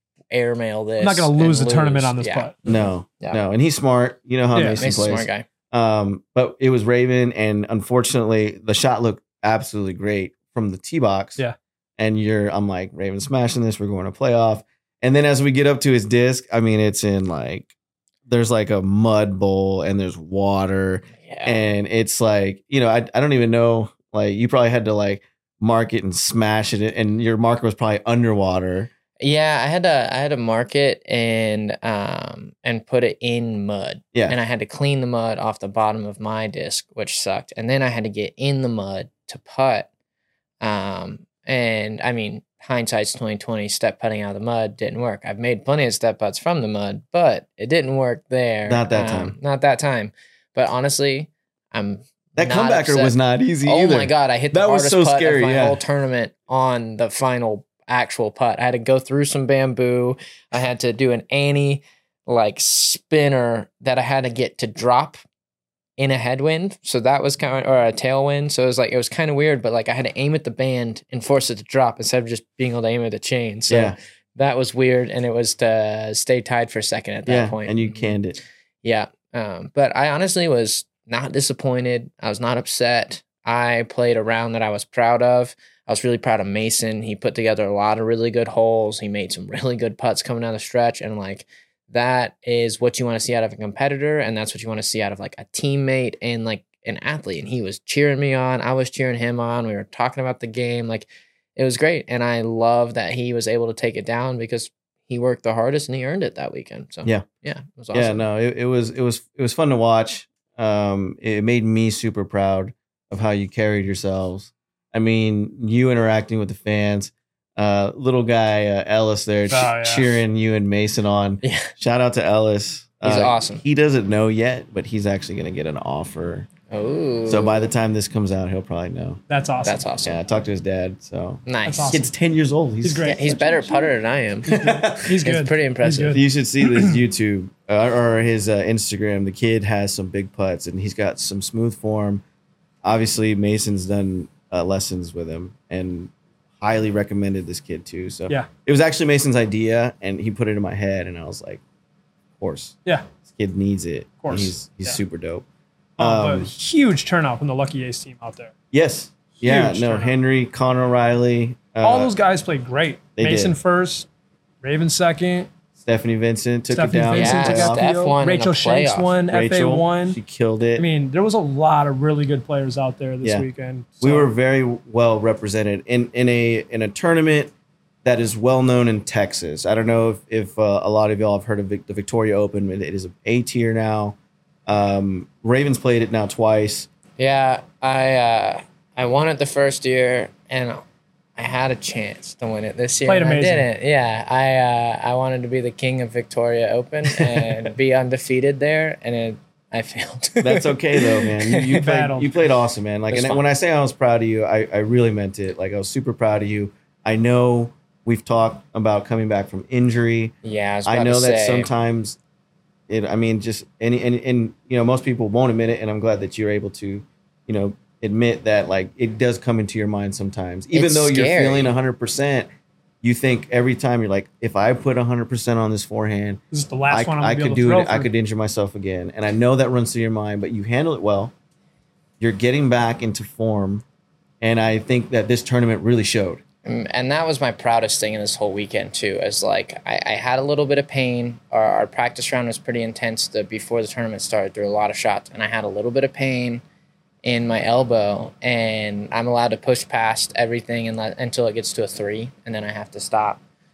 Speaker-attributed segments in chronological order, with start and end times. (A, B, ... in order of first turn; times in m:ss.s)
0:00.3-0:03.4 A
0:01.0-0:02.6 B
0:02.6-0:11.4 C
0:04.5-0:04.8 B
0:04.8-0:05.5 A
0:12.0-0:17.7 C
0:18.3-0:28.9 C
0:21.2-0:21.6 A
0:29.2-0:39.9 A
0:40.6-1:05.2 A
0:48.6-0:49.4 C
0:52.4-0:55.8 C
1:06.0-1:18.2 A
1:13.7-1:14.0 C
1:17.2-1:18.4 C
1:18.8-1:48.2 A
1:47.9-2:06.5 C
1:59.5-2:00.2 B
2:01.4-2:01.7 A
2:03.0-2:03.6 A
2:06.7-2:07.7 A
2:07.2-2:09.2 C
2:09.3-2:09.8 B
2:09.6-2:10.2 A
2:10.0-2:13.7 C
2:11.4-2:12.0 A
2:11.6-2:12.0 B
2:12.8-2:13.7 B
2:13.0-2:16.2 A
2:14.5-2:17.0 B
2:14.5-2:15.1 C
2:16.1-2:22.2 C
2:22.8-2:31.6 C
2:32.4-2:35.4 C
2:34.2-2:35.0 B
2:36.0-2:36.5 C
2:36.0-2:38.5 B
2:38.7-2:42.1 C
2:39.4-2:40.1 B
2:41.8-2:44.1 B
2:43.2-2:43.6 C
2:44.6-2:45.5 B
2:45.8-2:47.8 C
2:46.7-2:50.2 B
2:47.1-2:49.1 A
2:49.3-2:50.8 C
2:50.8-2:54.3 B
2:54.0-2:57.5 C
2:58.0-3:06.9 C
3:07.2-3:10.8 A
3:11.4-3:21.6 A
3:13.0-3:13.6 B
3:20.4-3:30.3 C
3:21.7-3:22.3 B
3:23.1-3:23.4 A
3:30.4-3:31.7 A
3:30.8-3:32.2 C
3:32.9-3:42.5 C
3:40.7-3:41.7 A
3:43.0-3:51.3 C
3:46.5-3:48.1 B
3:52.2-3:53.8 C
3:54.4-3:56.4 C
3:56.6-4:06.6 A
4:07.2-4:13.4 A